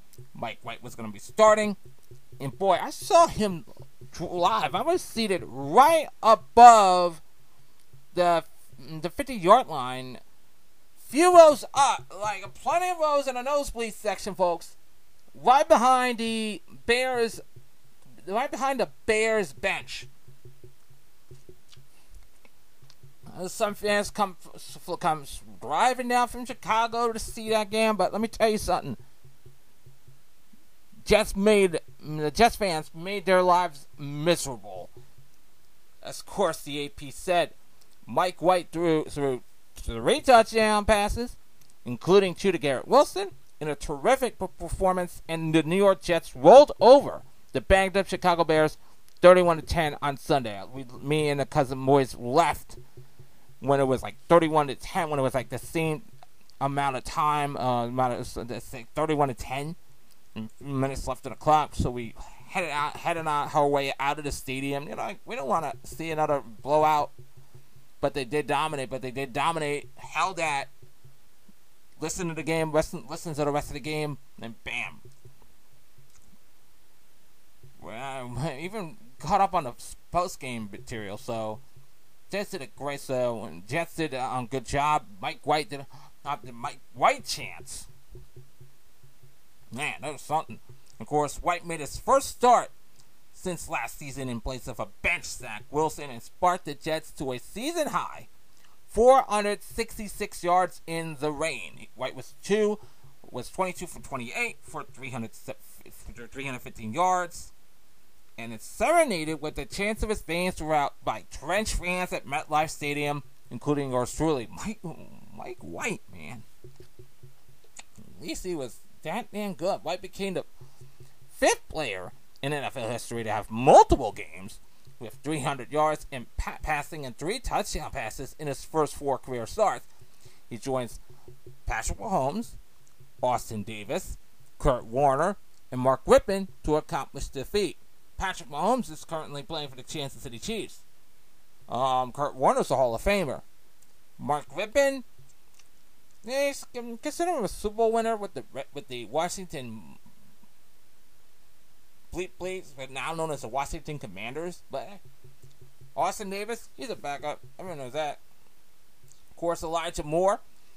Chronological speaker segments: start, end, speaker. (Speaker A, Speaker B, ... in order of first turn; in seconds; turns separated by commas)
Speaker A: 0.3-1.8, Speaker A: 2.4-7.2, Speaker A: 8.1-10.2, Speaker A: 11.0-14.8, Speaker A: 15.3-17.4, Speaker A: 18.2-20.1, Speaker A: 23.3-29.0, Speaker A: 31.1-34.9, Speaker A: 36.0-37.5, Speaker A: 38.0-52.8, Speaker A: 53.6-56.1, Speaker A: 56.6-59.8, Speaker A: 60.4-67.1, Speaker A: 68.0-70.7, Speaker A: 72.0-75.0, Speaker A: 77.8-81.6, Speaker A: 82.3-87.9, Speaker A: 89.7-92.7, Speaker A: 93.3-98.3, Speaker A: 98.9-107.5, Speaker A: 108.4-116.4, Speaker A: 118.1-120.5, Speaker A: 121.3-129.9, Speaker A: 130.5-131.0, Speaker A: 131.7-132.6, Speaker A: 133.2-140.8, Speaker A: 141.7-143.4, Speaker A: 144.2-145.0, Speaker A: 146.2-150.0, Speaker A: 152.1-155.0, Speaker A: 155.9-158.2, Speaker A: 159.3-160.4